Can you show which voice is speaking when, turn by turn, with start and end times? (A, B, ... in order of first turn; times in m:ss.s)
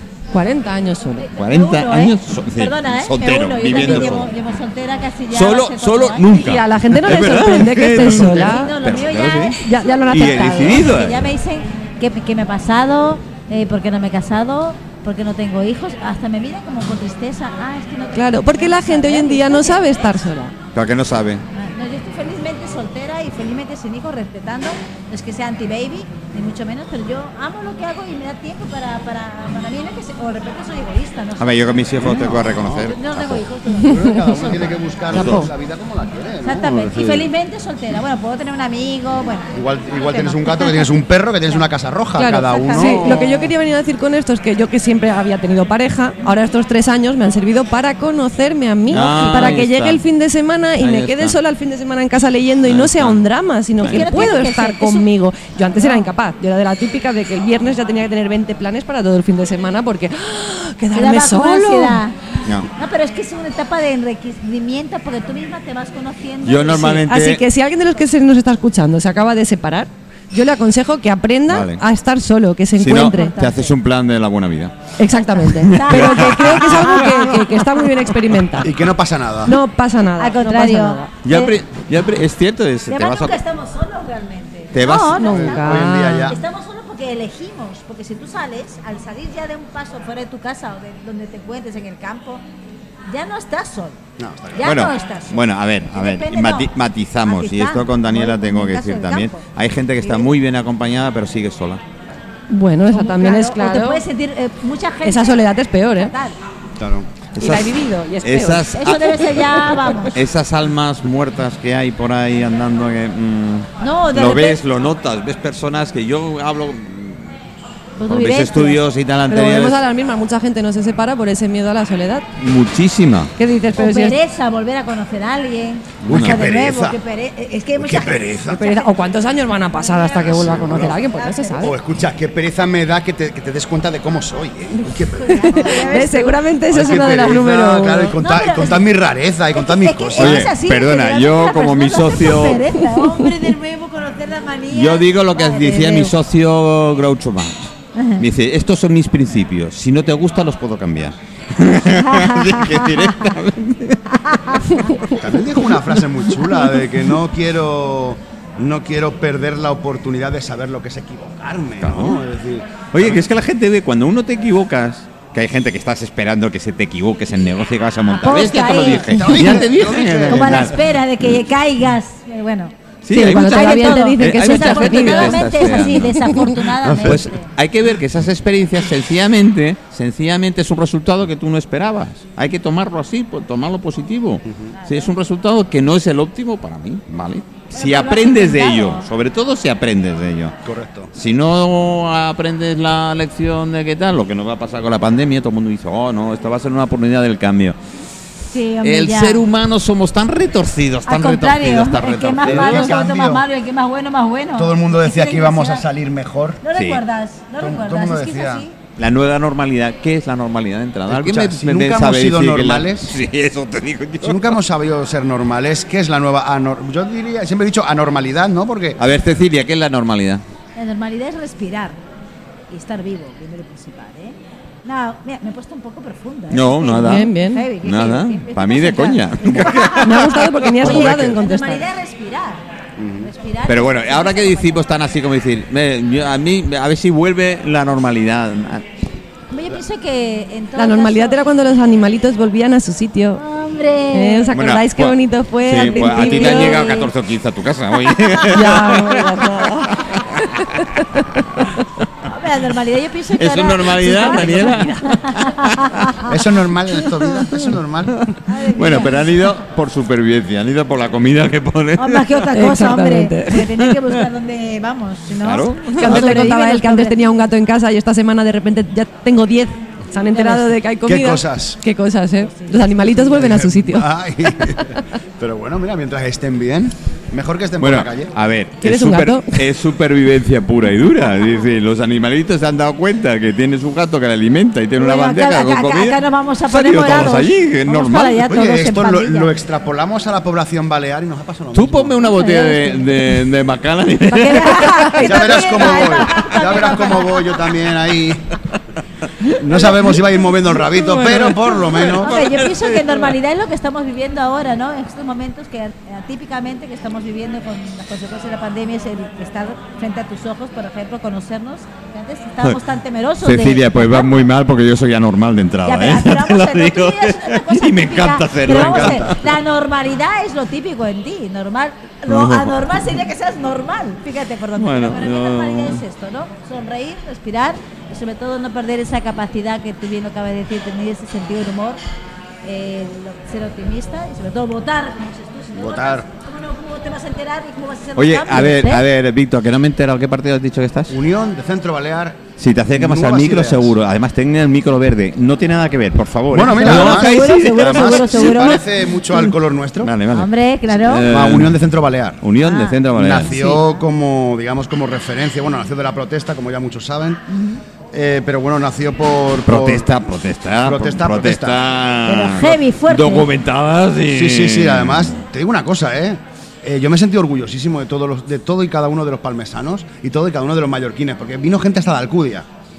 0:00.3-0:01.3 A
0:01.2-0:06.3 B
0:01.4-0:04.3 C
0:05.3-0:09.6 C
0:06.4-0:08.7 A
0:08.0-0:20.2 B
0:09.6-0:10.9 A
0:10.1-0:11.3 C
0:18.2-0:20.5 A
0:20.8-0:21.4 C
0:21.5-0:34.8 B
0:31.4-0:33.4 C
0:32.0-0:32.9 D
0:33.8-0:37.3 D
0:35.1-0:35.5 C
0:35.2-0:35.5 A
0:36.4-0:40.9 B
0:39.5-0:43.3 D
0:42.2-1:02.0 A
0:42.4-0:43.3 B
0:43.1-0:43.5 C
0:48.9-0:50.0 C
0:49.0-0:49.6 B
0:50.8-0:51.4 C
0:52.6-0:53.2 C
0:53.8-0:54.4 C
0:53.8-0:55.1 B
0:55.8-0:56.1 B
1:00.9-1:02.2 B
1:02.8-1:07.0 B
1:06.4-1:07.4 C
1:06.9-1:13.4 A
1:11.5-1:11.8 C
1:12.8-1:14.8 C
1:13.0-1:13.7 B
1:15.0-1:18.7 A
1:15.6-1:17.1 C
1:15.6-1:17.9 B
1:18.6-1:19.6 D
1:19.5-1:21.2 A
1:20.2-1:21.5 B
1:21.2-1:23.4 C
1:22.9-1:25.7 B
1:24.7-1:25.3 C
1:25.1-1:26.3 A
1:25.3-1:26.4 D
1:26.3-1:32.4 B
1:33.1-1:34.0 B
1:34.2-1:34.7 D
1:34.6-1:36.7 B
1:34.6-1:41.8 C
1:37.2-1:39.4 B
1:40.0-1:40.3 B
1:42.5-1:44.0 A
1:42.9-1:46.4 B
1:45.0-1:46.1 A
1:46.8-1:47.1 D
1:47.4-1:49.4 C
1:47.4-1:48.7 A
1:48.7-1:50.2 B
1:49.8-1:50.0 A
1:50.1-1:57.3 C
1:53.8-1:54.6 B
1:58.0-1:58.8 B
1:58.1-1:59.8 C
1:59.3-2:02.2 A
2:02.4-2:03.3 C
2:03.4-2:04.2 A
2:03.8-2:08.9 B
2:06.0-2:06.4 C
2:06.0-2:07.0 D
2:07.8-2:08.8 D
2:08.5-2:11.8 A
2:09.7-2:11.8 B
2:10.1-2:11.0 D
2:11.6-2:16.0 D
2:14.9-2:17.0 B
2:15.3-2:18.2 A
2:16.7-2:20.5 D
2:18.2-2:18.9 B
2:19.5-2:26.1 B
2:20.2-2:22.7 C
2:24.7-2:34.8 C
2:28.0-2:28.2 B
2:32.0-2:33.1 B
2:34.1-2:34.9 B
2:35.1-2:43.2 D
2:41.8-2:42.2 C
2:42.9-2:50.8 C
2:48.1-2:57.5 B
2:49.1-2:50.8 D
2:53.0-3:10.6 C
2:53.1-2:56.5 A
2:56.8-2:57.2 D
3:04.8-3:05.1 B
3:07.7-3:09.1 B
3:10.6-3:11.1 D
3:11.1-3:17.8 C
3:18.5-3:19.5 B
3:18.8-3:22.9 C
3:21.1-3:25.8 B
3:22.4-3:23.4 D
3:24.6-3:26.6 D
3:26.6-3:28.8 B
3:26.7-3:27.0 C
3:27.6-3:28.6 D
3:29.0-3:34.6 C
3:31.1-3:33.2 D
3:34.2-3:39.0 D
3:39.0-3:40.4 C
3:40.8-3:42.0 B
3:42.7-3:52.6 B
3:46.5-3:47.3 C
3:47.0-3:47.7 A
3:47.8-3:51.2 C
3:49.7-3:51.8 A
3:53.0-3:53.3 D
3:53.2-3:54.8 B
3:53.7-3:58.9 C
3:59.5-4:01.4 B
4:00.8-4:03.4 A
4:03.4-4:04.6 B
4:04.1-4:06.9 A
4:04.5-4:10.8 C
4:05.7-4:07.1 B
4:08.5-4:10.0 A
4:12.2-4:16.3 B
4:13.4-4:16.2 C
4:16.3-4:18.4 D
4:18.5-4:19.5 B
4:18.7-4:22.4 C
4:22.0-4:27.3 B
4:22.5-4:23.7 A
4:23.8-4:24.2 C
4:25.4-4:26.5 C
4:26.0-4:34.1 A
4:30.3-4:30.7 B
4:31.0-4:31.8 D
4:32.5-4:32.9 B
4:33.3-4:38.3 D
4:37.8-4:48.5 C
4:38.8-4:39.6 A
4:45.0-4:49.5 B
4:48.5-4:52.2 D
4:51.7-4:55.8 C
4:52.2-4:53.2 B
4:54.3-4:57.6 B
4:55.2-4:58.6 D
4:59.5-5:02.4 D
5:01.1-5:03.2 C
5:02.1-5:14.4 B
5:13.4-5:19.4 C
5:15.8-5:32.0 B
5:18.8-5:19.2 D
5:22.3-5:22.8 C
5:24.8-5:26.0 C
5:32.6-5:39.0 B
5:35.8-5:36.3 D
5:38.2-5:41.2 C
5:41.1-5:43.9 D
5:42.6-5:48.8 C
5:46.5-5:50.1 D
5:46.7-5:48.8 B
5:50.0-5:51.8 C
5:50.3-5:51.3 B
5:51.2-5:52.4 D
5:52.4-5:53.6 C
5:52.6-5:54.0 B
5:53.1-5:57.4 D
5:57.5-5:57.8 B
5:58.1-6:00.2 D
5:59.6-6:05.4 C
6:00.8-6:01.8 D
6:02.3-6:03.5 B
6:04.3-6:12.7 D